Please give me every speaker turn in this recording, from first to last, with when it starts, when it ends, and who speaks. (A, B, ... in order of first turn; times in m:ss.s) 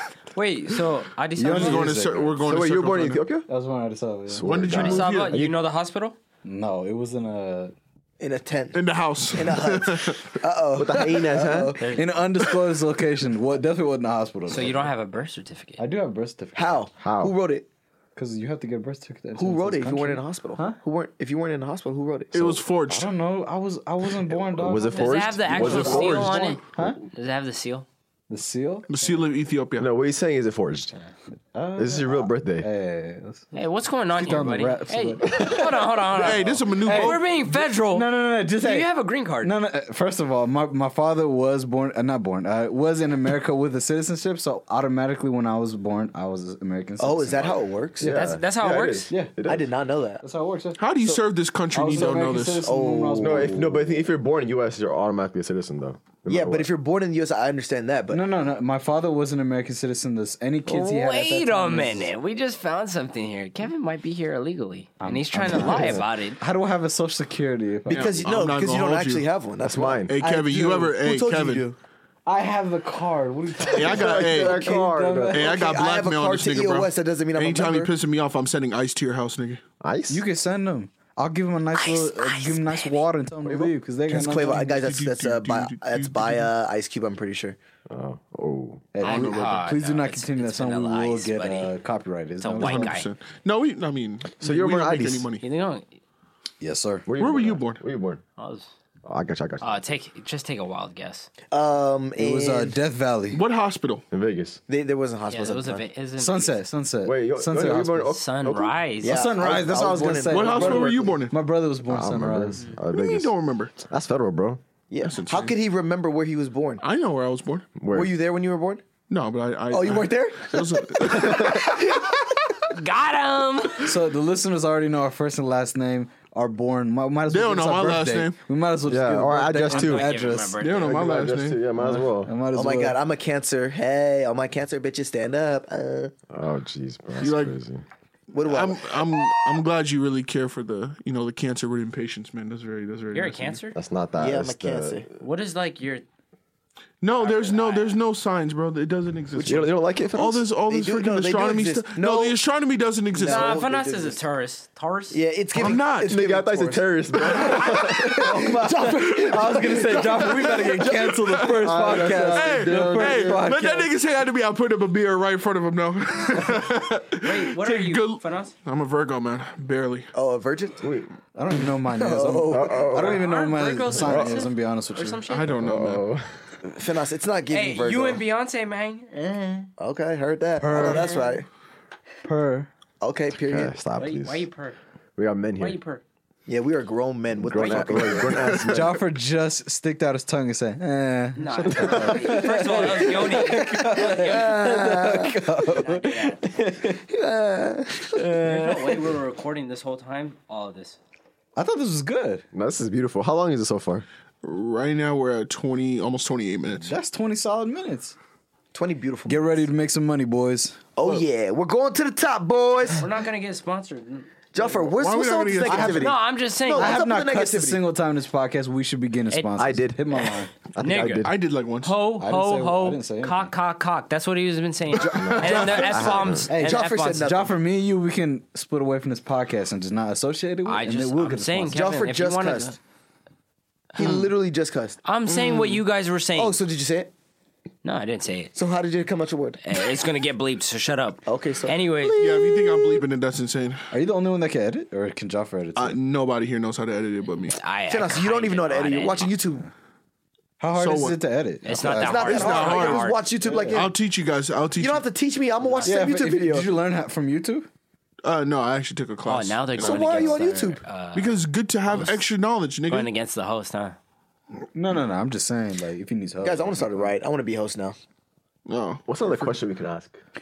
0:00.3-0:01.8 A
0:01.4-0:03.5 B
0:01.4-0:03.3 C
0:01.5-0:02.1 D
0:03.5-0:04.5 D
0:04.3-0:05.6 B
0:04.5-0:05.4 C
0:04.7-0:06.2 A
0:06.4-0:07.7 D
0:08.2-0:08.8 E
0:08.7-0:10.2 C
0:09.3-0:12.0 E
0:10.8-0:11.8 B
0:11.8-0:12.1 A
0:11.9-0:14.9 D
0:14.5-0:15.8 A
0:15.8-0:16.8 D
0:16.6-0:17.7 E
0:17.0-0:17.3 B
0:18.2-0:20.8 D
0:19.4-0:22.5 E
0:22.3-0:23.1 C
0:22.9-0:27.0 D
0:24.5-0:26.6 B
0:24.9-0:27.9 A
0:28.3-0:28.9 D
0:28.9-0:30.0 C
0:29.8-0:31.0 B
0:31.5-0:33.5 D
0:31.8-0:32.7 B
0:33.5-0:39.6 A
0:34.1-0:38.9 D
0:36.2-0:37.2 C
0:39.4-0:48.3 D
0:47.0-0:48.1 E
0:48.0-0:49.7 B
0:48.1-0:49.1 A
0:49.4-0:50.2 E
0:50.2-0:54.0 D
0:50.8-0:52.7 C
0:52.0-0:53.7 E
0:53.2-0:56.7 B
0:56.3-0:58.2 E
0:58.1-1:02.1 D
1:00.7-1:06.4 A
1:05.0-1:08.1 D
1:07.9-1:11.8 E
1:07.9-1:09.3 C
1:09.6-1:10.2 B
1:10.1-1:11.6 C
1:12.3-1:15.5 D
1:13.6-1:14.7 E
1:13.7-1:14.6 C
1:13.9-1:15.4 B
1:15.3-1:17.9 E
1:15.3-1:19.6 C
1:19.8-1:20.2 B
1:20.1-1:24.7 D
1:21.8-1:23.0 A
1:23.4-1:23.7 B
1:24.1-1:27.6 E
1:24.4-1:26.5 C
1:27.9-1:28.9 B
1:28.9-1:33.0 D
1:29.0-1:29.6 C
1:29.0-1:31.7 A
1:32.4-1:33.1 A
1:32.6-1:35.4 C
1:34.4-1:35.3 B
1:35.4-1:36.0 A
1:36.6-1:37.1 D
1:37.1-1:38.2 B
1:37.2-1:37.8 C
1:38.4-1:38.7 A
1:39.0-1:39.7 B
1:39.6-1:41.3 A
1:41.5-1:42.7 E
1:42.2-1:43.4 D
1:43.3-1:44.0 C
1:44.1-1:44.6 B
1:44.7-1:45.8 E
1:45.3-1:46.6 A
1:46.2-1:48.2 D
1:47.0-1:48.8 B
1:48.1-1:49.3 A
1:49.0-1:51.2 E
1:49.0-1:52.7 D
1:50.3-1:51.3 C
1:51.9-1:54.6 B
1:52.9-1:53.8 C
1:54.9-1:56.8 E
1:55.0-1:55.5 C
1:56.8-1:57.7 C
1:57.8-1:58.2 B
1:57.9-1:58.8 E
1:59.1-2:02.0 C
1:59.7-2:02.1 E
2:02.7-2:03.9 A
2:03.8-2:10.6 D
2:07.3-2:08.4 C
2:08.9-2:10.1 B
2:09.6-2:11.0 A
2:10.6-2:11.6 C
2:10.8-2:12.3 B
2:11.8-2:13.0 D
2:12.5-2:16.2 E
2:16.3-2:17.8 B
2:17.2-2:17.6 C
2:18.3-2:19.4 E
2:18.4-2:23.6 C
2:23.1-2:23.8 A
2:23.8-2:25.1 B
2:24.2-2:25.1 E
2:25.2-2:26.0 A
2:27.0-2:33.6 C
2:27.2-2:28.0 A
2:29.4-2:29.7 E
2:29.4-2:30.4 B
2:30.5-2:32.4 E
2:33.2-2:34.2 E
2:33.2-2:35.2 A
2:35.1-2:40.6 E
2:35.6-2:36.2 C
2:36.0-2:38.6 B
2:37.4-2:38.1 A
2:37.9-2:43.9 D
2:39.6-2:50.1 C
2:41.5-2:43.5 B
2:47.2-2:48.6 A
2:50.1-2:50.8 E
2:50.8-2:51.1 B
2:51.4-2:55.3 D
2:51.9-2:53.2 E
2:52.5-2:53.2 B
2:53.0-2:55.5 A
2:54.0-2:54.4 B
2:55.3-2:56.1 C
2:55.6-2:56.3 B
2:56.7-2:58.2 E
2:57.5-2:59.7 A
2:59.8-3:01.5 E
3:00.6-3:01.2 D
3:00.7-3:01.3 A
3:02.2-3:02.7 D
3:03.0-3:03.7 E
3:03.4-3:04.5 B
3:04.0-3:04.8 A
3:05.2-3:05.8 B
3:05.6-3:06.0 A
3:06.5-3:08.7 E
3:07.4-3:09.0 B
3:07.6-3:08.5 A
3:08.6-3:17.0 D
3:11.4-3:14.7 A
3:11.7-3:12.5 B
3:12.3-3:15.6 E
3:15.6-3:16.4 A
3:16.8-3:18.4 E
3:18.1-3:19.0 D
3:18.4-3:21.0 A
3:21.6-3:22.4 D
3:22.5-3:24.0 B
3:24.4-3:26.9 C
3:26.8-3:28.2 D
3:28.7-3:29.6 E
3:29.3-3:30.8 D
3:31.0-3:33.1 E
3:33.0-3:34.8 A
3:34.5-3:37.8 E
3:34.9-3:36.1 C
3:35.7-3:36.2 D
3:35.9-3:37.1 A
3:36.8-3:40.5 D
3:39.3-3:39.6 A
3:39.6-3:40.1 B
3:40.7-3:41.4 B
3:40.8-3:41.3 A
3:41.2-3:42.0 C
3:41.8-3:47.4 A
3:42.2-3:43.5 D
3:45.0-3:47.5 E
3:45.0-3:46.0 C
3:45.1-3:46.5 B
3:46.5-3:51.9 D
3:50.7-3:52.8 A
3:51.7-3:52.8 E
3:53.9-3:54.3 A
3:54.0-3:55.0 E
3:55.0-3:56.6 A
3:55.3-3:55.8 C
3:56.4-3:57.1 E
3:57.8-3:58.6 A
3:58.6-3:59.6 E
3:59.6-4:02.2 A
4:01.3-4:03.0 E
4:02.2-4:03.8 C
4:03.9-4:06.0 D
4:05.8-4:07.6 C
4:07.5-4:09.4 A
4:07.9-4:09.7 E
4:10.6-4:12.6 D
4:10.7-4:11.2 C
4:11.6-4:13.3 A
4:11.8-4:14.0 E
4:12.2-4:13.1 C
4:13.4-4:13.9 D
4:13.7-4:15.0 C
4:14.8-4:16.7 E
4:15.6-4:16.0 A
4:15.8-4:17.7 D
4:18.2-4:20.4 C
4:19.3-4:21.4 A
4:19.8-4:20.8 E
4:21.2-4:23.1 C
4:22.9-4:24.0 A
4:24.7-4:27.0 D
4:26.4-4:28.0 E
4:28.7-4:29.5 C
4:29.1-4:30.2 B